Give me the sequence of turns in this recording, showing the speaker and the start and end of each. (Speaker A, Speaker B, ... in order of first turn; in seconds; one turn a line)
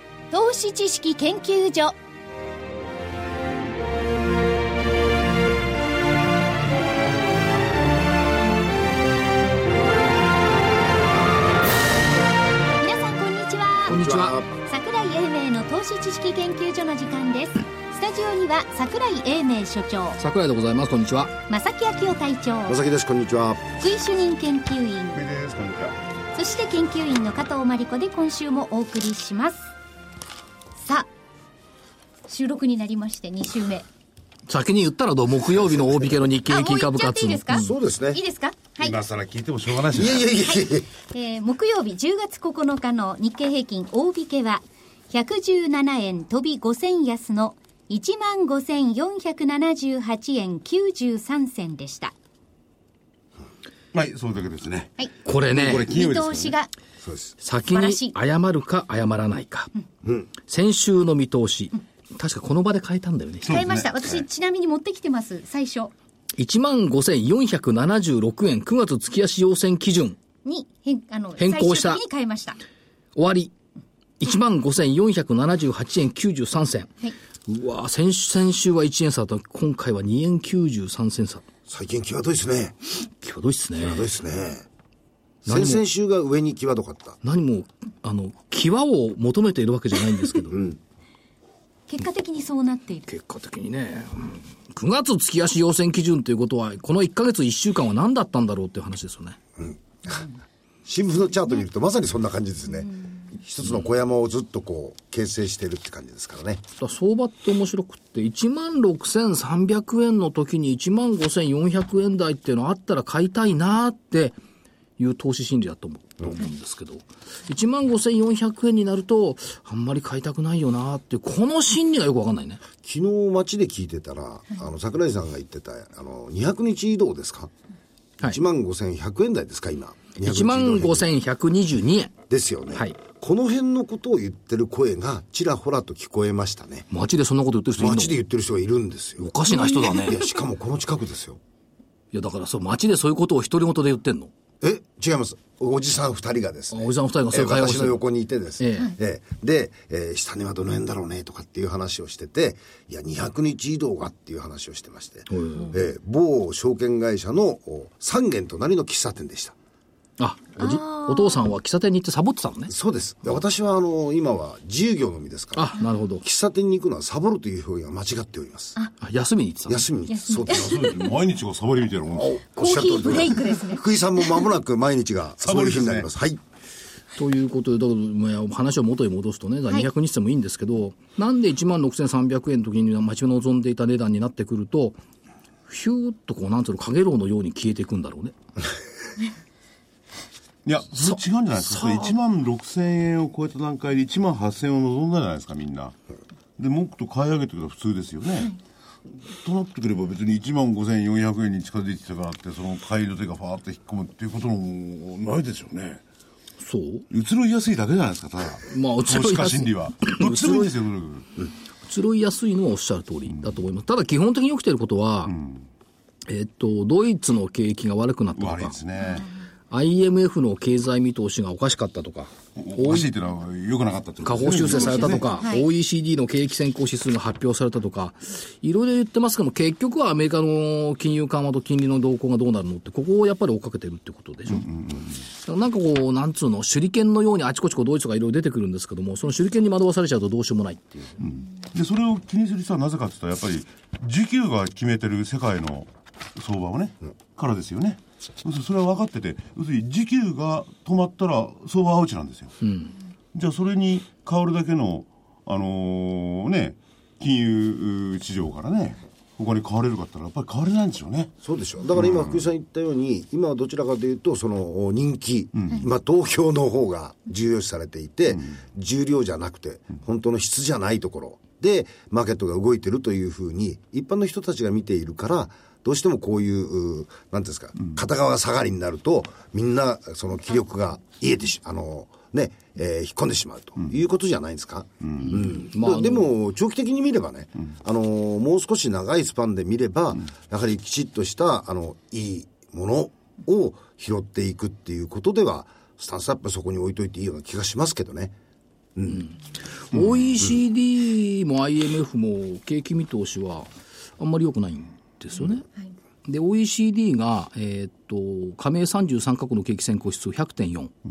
Speaker A: 0.3-1.9
Speaker A: 12.8-14.0
Speaker B: 13.9-14.4
Speaker C: 13.9-14.5
Speaker A: 14.5-20.2
Speaker B: 20.2-21.3
Speaker A: 21.5-22.8
Speaker C: 22.7-23.6
Speaker A: 23.8-25.2
Speaker D: 25.1-26.0
Speaker A: 26.4-29.7
Speaker A: 30.8-31.1
Speaker A: 32.3-33.9
Speaker B: 34.5-37.7
Speaker A: 36.5-39.0
Speaker C: 37.5-38.2
Speaker D: 38.8-40.4
Speaker C: 39.9-40.9
Speaker A: 41.1-52.1
Speaker D: 53.9-56.5
Speaker B: 55.2-55.9
Speaker A: 55.8-56.7
Speaker B: 57.4-59.7
Speaker A: 57.7-58.1
Speaker B: 60.4-63.6
Speaker D: 63.4-64.2
Speaker A: 63.4-65.9
Speaker B: 66.4-70.2
Speaker A: 70.5-72.6
Speaker B: 71.4-72.0
Speaker B: 73.2-73.5
Speaker B: 74.2-76.9
Speaker B: 77.5-81.4
Speaker C: 81.7-82.8
Speaker B: 83.2-84.1
Speaker C: 83.8-84.7
Speaker B: 85.5-85.8
Speaker C: 85.5-87.2
Speaker B: 87.2-90.7
Speaker A: 91.9-93.1
Speaker B: 93.1-99.4
Speaker C: 99.6-100.3
Speaker C: 100.9-106.6
Speaker B: 106.8-114.4
Speaker B: 115.0-122.6
Speaker C: 122.8-127.5
Speaker C: 128.2-131.1
Speaker B: 130.2-132.1
Speaker C: 132.3-136.9
Speaker B: 136.9-138.2
Speaker C: 137.8-141.4
Speaker B: 139.2-140.2
Speaker B: 142.1-144.3
Speaker C: 144.6-159.6
Speaker B: 146.7-148.0
Speaker B: 148.6-148.9
Speaker B: 155.3-155.7
Speaker B: 160.2-162.7
Speaker A: 160.6-161.5
Speaker C: 162.7-168.8
Speaker B: 165.6-166.2
Speaker B: 169.0-169.8
Speaker C: 169.7-171.0
Speaker A: 170.1-171.1
Speaker D: 170.5-172.4
Speaker C: 172.2-176.4
Speaker A: 172.6-174.4
Speaker D: 175.4-176.1
Speaker B: 177.2-185.0
Speaker B: 185.7-188.3
Speaker D: 190.7-195.9
Speaker B: 191.0-192.1
Speaker D: 196.6-198.5
Speaker D: 199.4-206.0
Speaker B: 206.6-207.1
Speaker D: 207.1-211.3
Speaker B: 208.7-210.7
Speaker B: 211.9-215.3
Speaker D: 215.3-215.7
Speaker B: 216.3-218.8
Speaker D: 218.3-219.3
Speaker B: 219.7-223.1
Speaker D: 222.6-225.2
Speaker B: 224.2-234.7
Speaker A: 224.8-225.7
Speaker D: 234.5-235.1
Speaker B: 235.5-241.2
Speaker D: 241.2-252.6
Speaker B: 252.6-252.9
Speaker D: 253.3-261.3
Speaker C: 261.4-298.4
Speaker D: 262.0-262.4
Speaker D: 265.6-265.8
Speaker D: 285.0-285.4
Speaker B: 285.3-286.3
Speaker B: 299.1-299.4
Speaker B: 299.9-305.7
Speaker B: 306.3-310.9